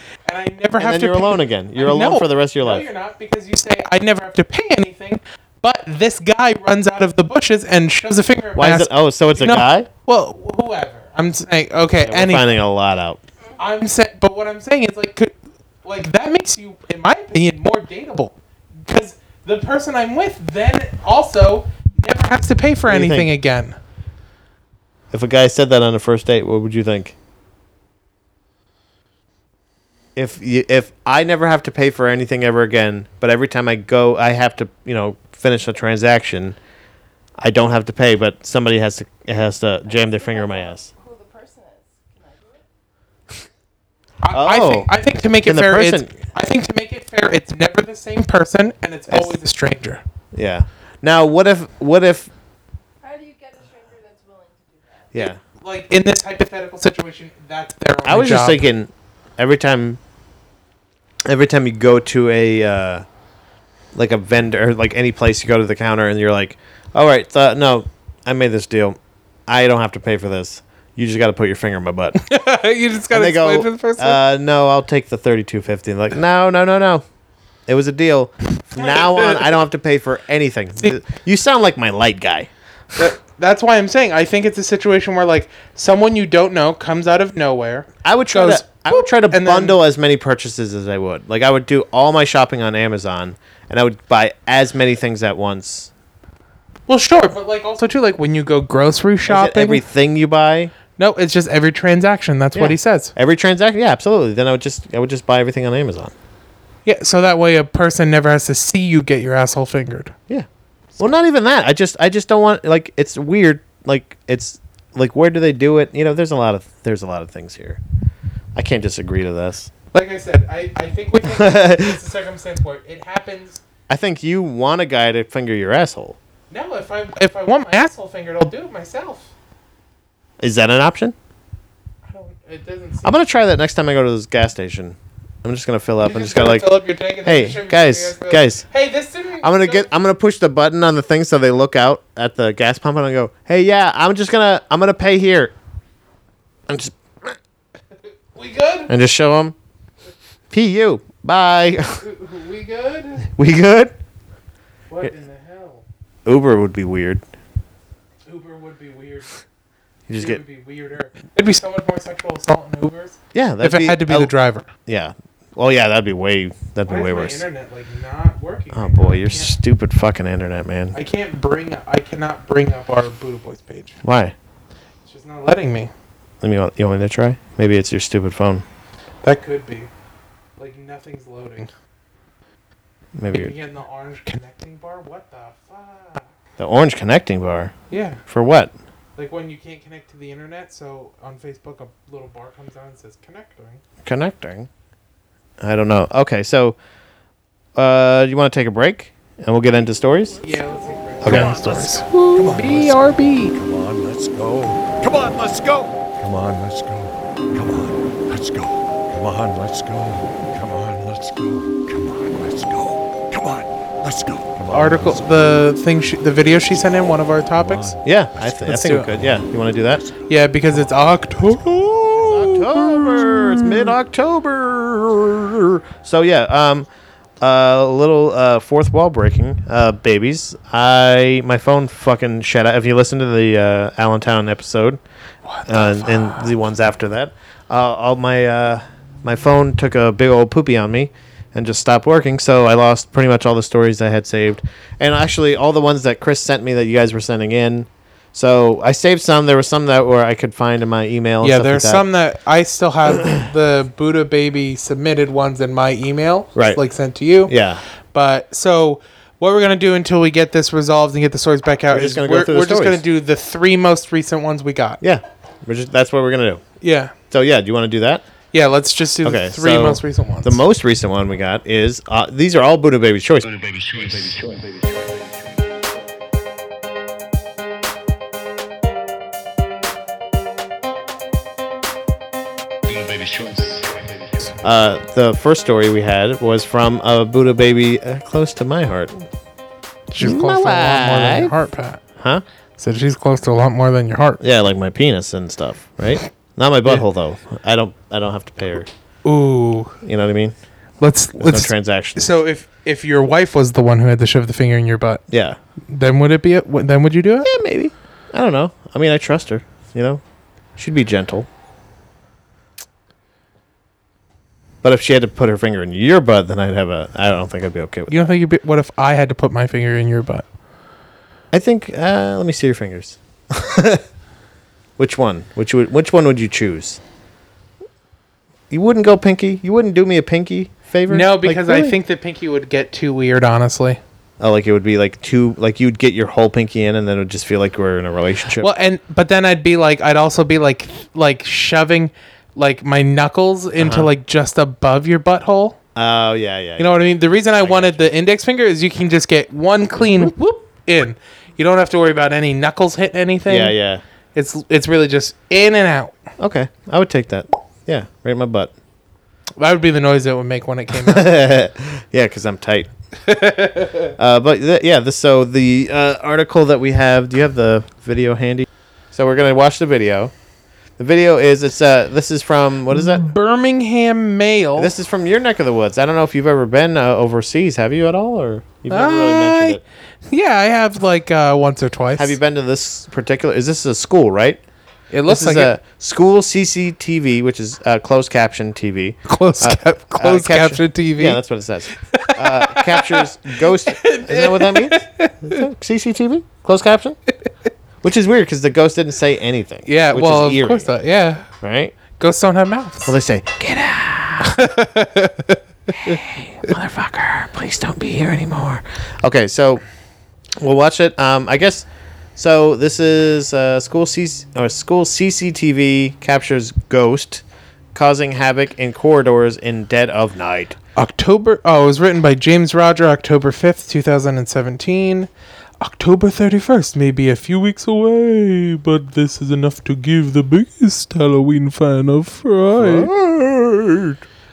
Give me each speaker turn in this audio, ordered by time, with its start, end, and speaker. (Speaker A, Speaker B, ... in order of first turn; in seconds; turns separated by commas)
Speaker A: 0.2-12.4, Speaker B: 0.8-2.9, Speaker B: 8.6-9.9, Speaker B: 12.0-13.2, Speaker A: 13.6-23.8, Speaker B: 22.9-23.3, Speaker B: 25.1-27.1, Speaker B: 30.1-36.6, Speaker B: 37.4-40.9, Speaker C: 39.9-42.6, Speaker A: 44.2-50.0, Speaker B: 44.3-44.9, Speaker B: 45.4-46.1, Speaker B: 49.1-49.3, Speaker B: 50.3-52.3, Speaker C: 53.0-55.2, Speaker B: 55.1-55.4, Speaker A: 55.2-58.7, Speaker B: 58.0-60.0, Speaker B: 61.2-63.0, Speaker B: 63.9-72.2, Speaker A: 72.1-74.2, Speaker B: 73.1-77.0, Speaker B: 77.7-82.5, Speaker A: 78.7-79.5, Speaker A: 83.0-89.8, Speaker B: 88.0-95.9, Speaker A: 96.9-99.8, Speaker B: 99.2-100.7, Speaker A: 101.0-103.1, Speaker B: 102.5-106.1, Speaker A: 106.8-110.1, Speaker B: 111.0-117.8, Speaker B: 118.5-119.7, Speaker A: 119.9-123.6, Speaker B: 121.3-121.9, Speaker B: 123.9-126.2, Speaker A: 126.5-129.3, Speaker B: 130.4-131.1, Speaker A: 132.0-133.1, Speaker B: 133.0-136.7, Speaker A: 136.0-139.9, Speaker B: 137.2-138.7, Speaker B: 139.4-145.5, Speaker B: 146.7-147.4, Speaker A: 148.3-148.9, Speaker B: 148.9-149.5, Speaker B: 150.5-152.0, Speaker A: 152.0-153.3, Speaker B: 153.3-153.9, Speaker A: 154.9-155.8, Speaker B: 156.2-157.2, Speaker A: 158.2-159.4, Speaker B: 160.1-160.4, Speaker A: 160.2-164.7, Speaker B: 163.3-164.3, Speaker B: 164.8-167.4, Speaker A: 166.8-169.6, Speaker B: 168.7-171.0, Speaker A: 170.9-174.0, Speaker B: 174.0-174.3, Speaker A: 175.0-175.9, Speaker B: 176.4-178.6, Speaker A: 179.2-179.9, Speaker A: 180.6-181.7, Speaker B: 183.2-183.5, Speaker A: 183.3-186.3, Speaker B: 186.6-187.7, Speaker A: 187.9-188.2, Speaker B: 188.3-188.7, Speaker A: 189.2-193.8, Speaker B: 194.0-194.7, Speaker B: 195.6-196.8, Speaker B: 197.8-200.4, Speaker A: 200.4-203.5, Speaker B: 201.2-201.6, Speaker D: 201.2-215.6, Speaker A: 214.7-218.0, Speaker D: 217.6-218.0, Speaker B: 218.0-220.1, Speaker A: 218.6-219.1, Speaker D: 218.9-219.4, Speaker A: 220.3-223.9, Speaker B: 222.1-226.9, Speaker B: 227.4-235.0, Speaker A: 235.4-236.5, Speaker B: 235.7-252.1, Speaker A: 251.4-265.0, Speaker B: 256.5-256.8, Speaker B: 257.5-257.8, Speaker B: 261.9-263.0, Speaker B: 265.0-266.6, Speaker A: 266.8-267.1, Speaker B: 267.3-268.2, Speaker A: 268.5-270.6, Speaker B: 269.2-273.5, Speaker D: 273.4-275.8, Speaker D: 282.9-284.6, Speaker B: 284.6-289.3, Speaker A: 290.1-292.0, Speaker B: 290.2-291.5, Speaker B: 292.2-292.4, Speaker A: 292.8-294.4, Speaker B: 294.4-298.9, Speaker A: 299.2-299.9, Speaker B: 300.0-300.5, Speaker A: 301.0-305.2, Speaker B: 301.4-302.3, Speaker B: 305.3-305.6, Speaker A: 305.9-307.5, Speaker B: 307.4-310.2, Speaker B: 310.8-311.5, Speaker B: 314.8-318.2, Speaker A: 318.1-320.4, Speaker B: 321.5-324.0, Speaker B: 325.0-327.0, Speaker B: 328.7-331.9, Speaker A: 331.1-334.0, Speaker B: 334.4-338.7, Speaker A: 338.6-345.8, Speaker B: 343.8-344.1, Speaker B: 345.9-347.1, Speaker A: 346.8-353.7, Speaker B: 347.6-348.1, Speaker B: 353.5-354.0, Speaker A: 354.3-356.2, Speaker B: 356.4-358.7, Speaker A: 359.6-361.3, Speaker B: 361.0-362.9, Speaker A: 363.2-364.1, Speaker B: 364.2-370.3, Speaker B: 371.0-373.3, Speaker A: 372.9-374.9, Speaker B: 374.8-379.8, Speaker A: 378.9-382.4, Speaker B: 382.2-384.6, Speaker A: 385.1-385.7, Speaker B: 385.3-397.2, Speaker A: 389.2-391.4, Speaker A: 391.9-395.6, Speaker B: 398.0-400.9, Speaker A: 399.9-401.5, Speaker B: 401.6-401.9, Speaker A: 402.1-403.1, Speaker B: 403.0-404.6, Speaker A: 404.4-406.2, Speaker B: 405.9-409.8, Speaker B: 410.6-417.4, Speaker B: 417.9-420.8, Speaker A: 420.9-433.1, Speaker B: 432.7-434.2